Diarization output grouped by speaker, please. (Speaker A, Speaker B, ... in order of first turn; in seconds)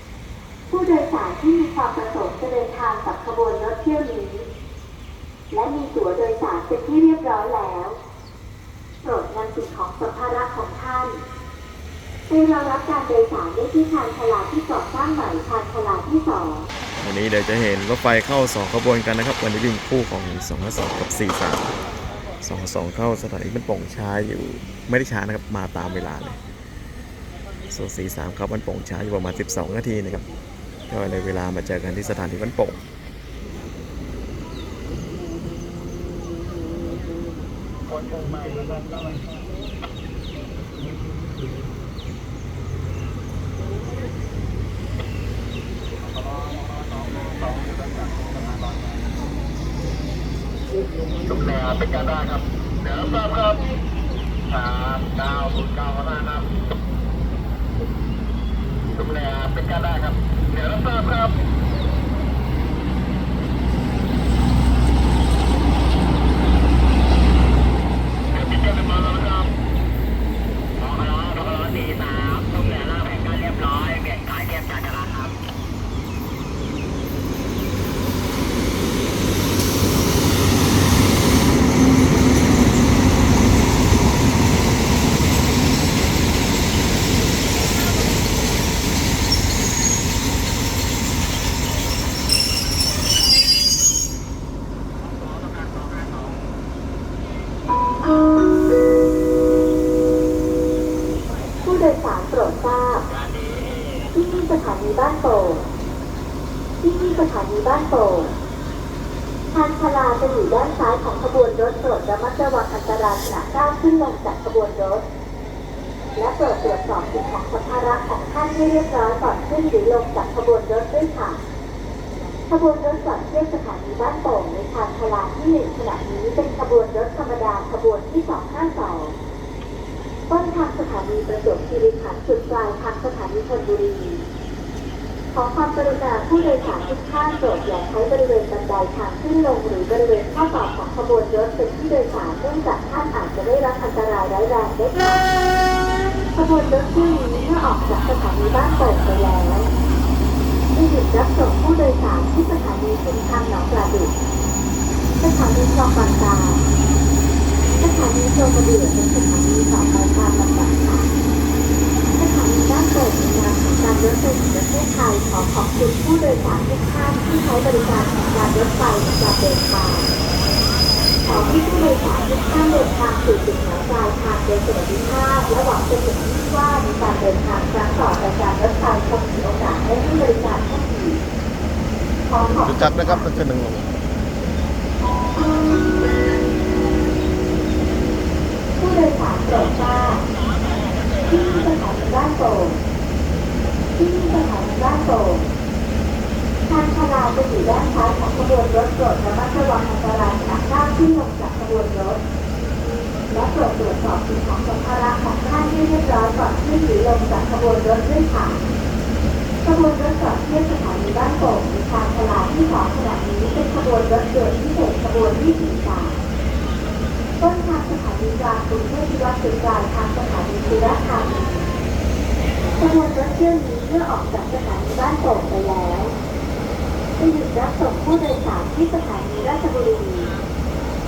Speaker A: 0.7-4.5, 5.5-8.0, 9.0-11.2, 12.3-16.7, 101.6-103.1, 104.1-105.7, 106.8-108.4, 109.5-115.0, 116.2-121.4, 122.5-129.2, 130.3-134.3, 135.3-145.3, 146.3-149.7, 150.7-154.1, 155.2-156.6, 157.8-161.1, 162.2-170.1, 171.2-181.2, 182.3-183.3, 188.8-190.2, 191.3-192.8, 194.0-195.5, 196.7-202.2, 203.3-208.6, 209.6-216.2, 217.4-221.7, 222.8-226.2, 227.2-230.4
Speaker B: 17.0-21.8, 22.4-26.4, 27.7-30.3, 30.9-32.8, 182.6-183.8
Speaker C: 37.9-39.2, 46.0-49.0, 51.3-53.6, 54.5-56.5, 58.9-61.4, 68.3-69.5, 70.8-75.3, 95.1-96.4, 103.1-104.1, 147.7-149.0, 171.9-172.5, 190.2-191.7